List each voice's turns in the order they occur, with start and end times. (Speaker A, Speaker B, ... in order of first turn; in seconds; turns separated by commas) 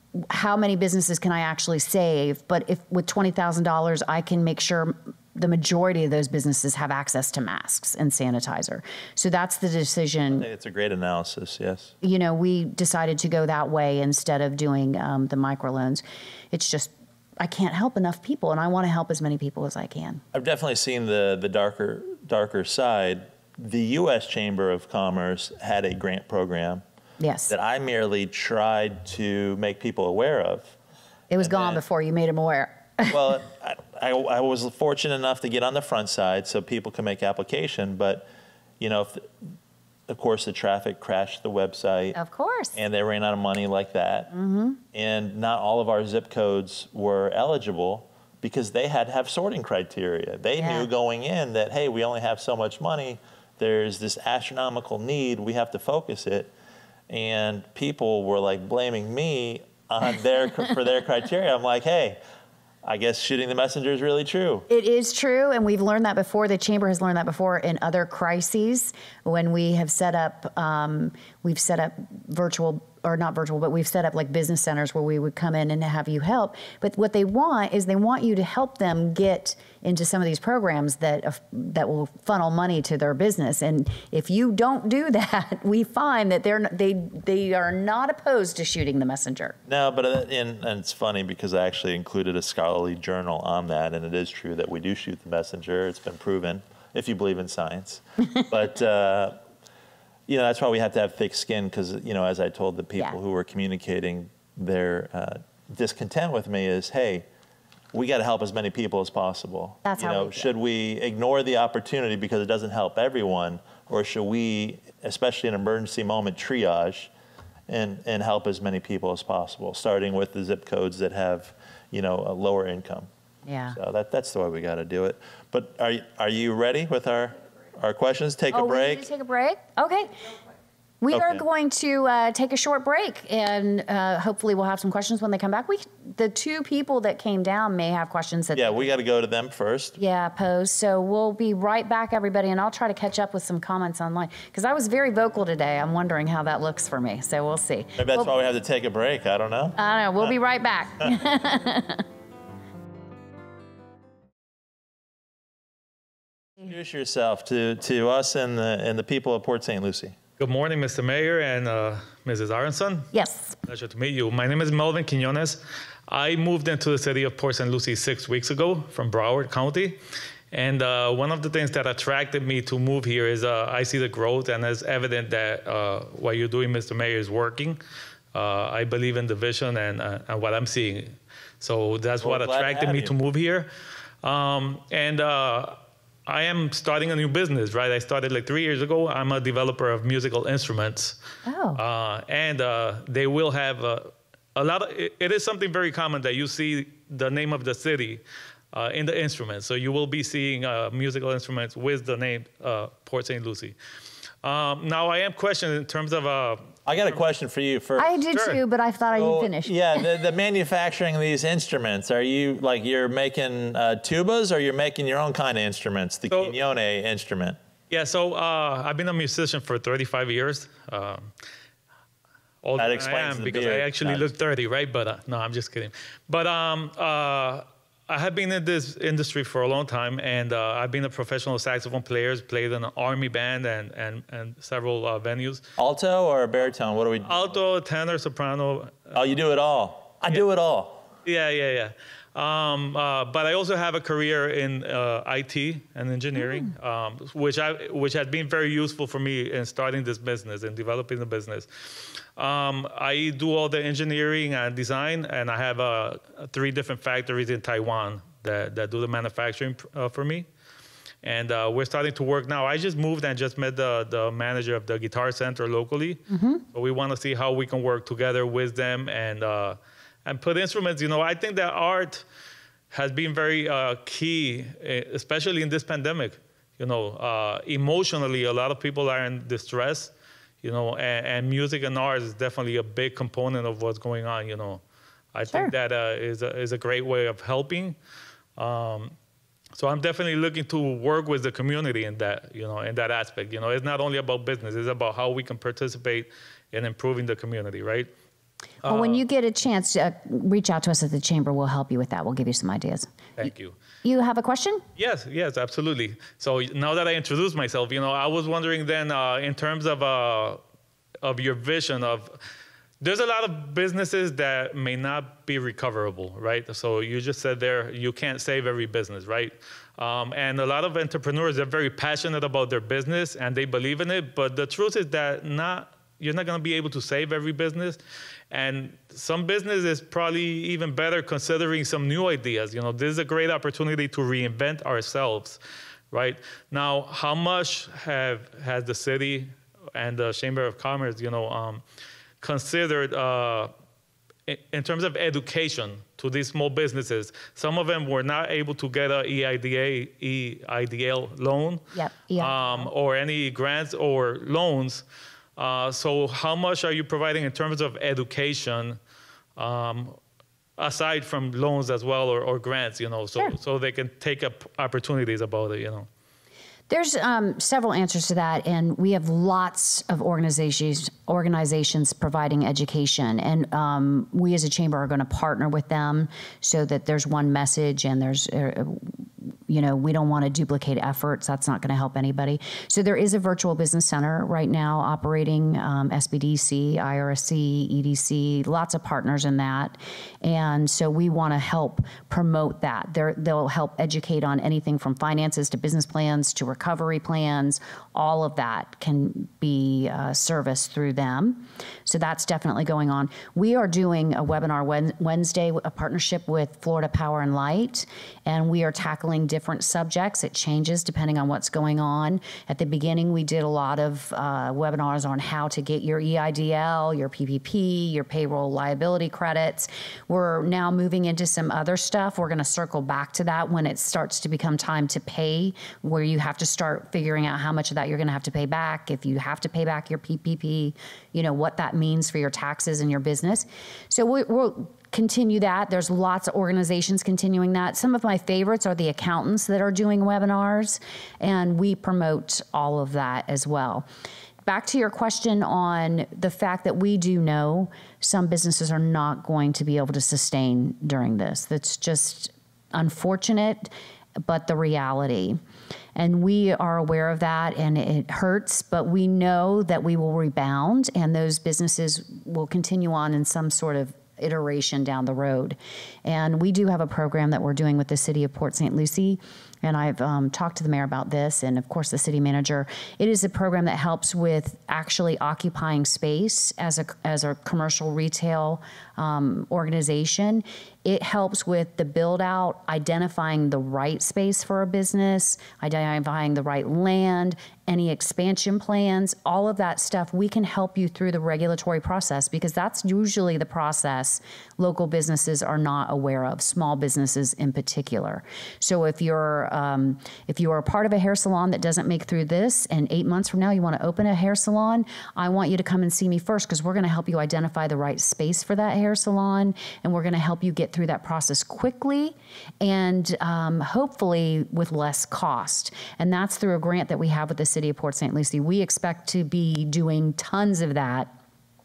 Speaker A: 0.3-10.4, Speaker B: 10.3-11.9, Speaker A: 12.0-20.2, Speaker B: 20.3-26.8, Speaker A: 27.2-27.5, Speaker B: 27.5-30.8, Speaker A: 31.3-33.1, Speaker B: 31.4-31.8, Speaker B: 33.1-38.3, Speaker B: 38.8-39.3, Speaker B: 40.1-42.2, Speaker A: 42.1-42.8, Speaker B: 42.7-44.3, Speaker A: 44.3-44.8, Speaker B: 44.9-56.5, Speaker A: 50.6-50.9, Speaker B: 57.1-62.2, Speaker B: 62.8-64.7, Speaker A: 64.7-89.6, Speaker B: 89.7-99.4, Speaker B: 100.3-107.2, Speaker B: 107.9-117.1, Speaker A: 109.8-110.5, Speaker B: 117.7-123.1, Speaker A: 123.5-123.8, Speaker B: 123.7-129.1, Speaker A: 128.5-130.1, Speaker A: 131.0-138.9, Speaker B: 131.1-131.4, Speaker B: 138.5-140.0, Speaker A: 140.0-148.3, Speaker B: 148.0-150.3, Speaker A: 149.8-152.0, Speaker B: 156.6-160.2, Speaker C: 160.4-163.1, Speaker A: 163.1-163.6, Speaker C: 163.6-170.0, Speaker C: 170.5-177.8, Speaker C: 178.3-183.7, Speaker B: 182.2-183.1, Speaker C: 184.2-191.2, Speaker A: 191.4-191.8, Speaker C: 191.7-203.8, Speaker C: 204.4-206.7, Speaker B: 206.8-208.2, Speaker A: 208.0-209.8, Speaker C: 208.3-208.6, Speaker B: 209.1-217.6, Speaker C: 217.9-221.3, Speaker C: 222.6-235.6, Speaker B: 222.8-224.2, Speaker B: 235.8-237.6, Speaker C: 237.2-239.1, Speaker B: 239.1-241.1, Speaker C: 241.2-260.5, Speaker A: 246.4-246.7, Speaker C: 261.2-272.2, Speaker A: 266.3-266.6, Speaker C: 272.9-284.8, Speaker C: 285.3-288.0, Speaker C: 288.6-289.1, Speaker C: 289.7-298.1, Speaker C: 298.8-299.2, Speaker A: 298.9-303.1, Speaker C: 303.4-303.8, Speaker A: 304.0-304.8, Speaker C: 305.0-310.6, Speaker C: 311.2-312.4, Speaker C: 313.0-328.0, Speaker C: 328.5-335.6, Speaker C: 336.1-341.8, Speaker C: 342.4-343.7, Speaker C: 344.5-351.8, Speaker A: 351.9-352.9, Speaker C: 352.4-355.0, Speaker C: 355.6-359.0, Speaker C: 359.6-360.2, Speaker C: 360.8-366.1, Speaker A: 366.9-379.1, Speaker A: 379.7-444.1, Speaker A: 444.6-455.6, Speaker A: 456.1-521.3